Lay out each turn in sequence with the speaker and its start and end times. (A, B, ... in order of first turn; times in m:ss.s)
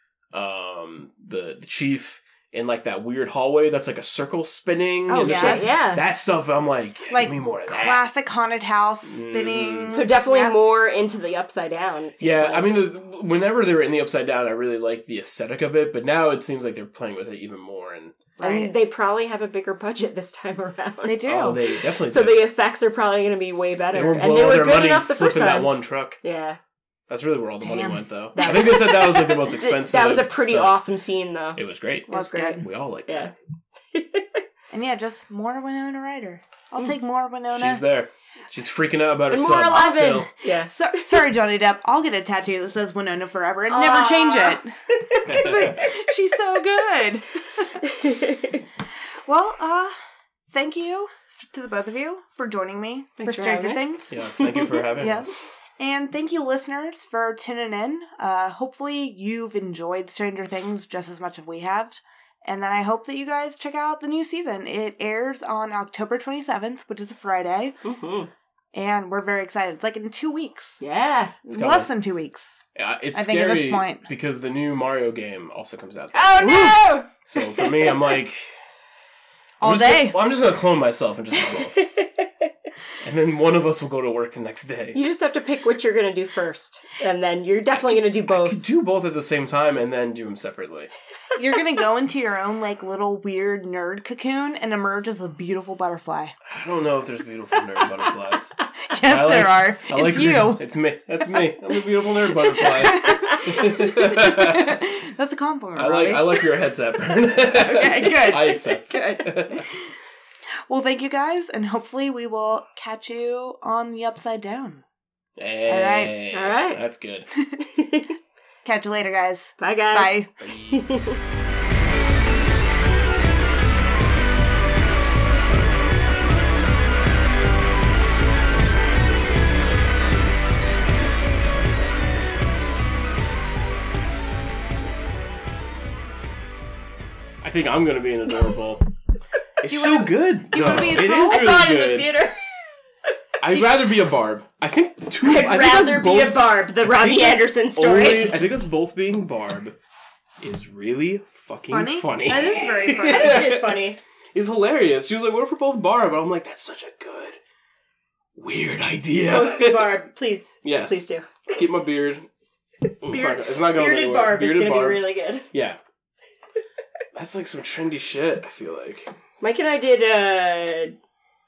0:00.3-0:08.0 A
0:05.1-0:05.7 B
0:05.2-0:06.0 C
0:07.1-0:10.6 B
0:09.0-0:10.1 A
0:09.9-0:12.8 C
0:12.2-0:18.2 A
0:18.4-0:18.7 B
0:18.4-0:26.6 C
0:21.0-0:21.6 B
0:21.2-0:22.4 A
0:23.9-0:26.2 A
0:27.1-0:30.8 A
0:27.6-0:28.4 B
0:28.4-0:33.3 C
0:31.6-0:33.3 A
0:32.1-0:32.6 B
0:33.9-0:34.4 C
0:34.7-0:37.8 B
0:37.5-0:40.3 A
0:39.3-0:40.7 C
0:39.8-0:47.8 B
0:43.7-0:45.9 C
0:45.2-0:45.8 A
0:47.8-0:48.6 C
0:49.2-0:50.0 B
0:50.5-0:54.1 B
0:53.2-0:54.8 C
0:54.1-0:55.5 A
0:55.0-1:07.8 B
1:07.8-1:08.3 C
1:08.7-1:10.8 B
1:10.8-1:11.3 C
1:11.4-1:12.6 B
1:11.5-1:11.9 A
1:12.8-1:18.5 A
1:13.1-1:14.1 B
1:16.1-1:17.9 C
1:16.4-1:16.8 B
1:19.6-1:20.2 B
1:19.6-1:21.8 A
1:21.7-1:22.3 C
1:23.0-1:25.0 A
1:24.9-1:28.6 C
1:27.8-1:30.9 A
1:31.3-1:36.3 B
1:36.4-1:38.5 A
1:38.8-1:40.6 B
1:39.1-1:44.8 A
1:42.4-1:46.4 B
1:43.1-1:43.4 C
1:45.8-1:49.6 A
1:47.5-1:49.8 B
1:50.7-1:54.8 B
1:55.4-1:57.3 A
1:55.7-1:56.2 B
1:56.3-1:56.8 C
1:57.6-1:58.1 C
1:58.6-2:00.4 B
1:59.6-2:01.2 C
2:00.4-2:00.8 A
2:17.4-2:18.8 A
2:19.6-2:22.1 A
2:19.6-2:21.6 B
2:20.6-2:22.4 C
2:23.4-2:29.8 A
2:25.2-2:28.4 C
2:30.4-2:37.4 A
2:31.7-2:33.4 B
2:33.0-2:34.0 C
2:38.4-2:39.9 A
2:39.2-2:41.3 C
2:40.6-2:42.3 A
2:43.0-2:45.8 A
2:43.0-2:45.5 C
2:47.1-2:49.1 A
2:49.4-2:51.0 C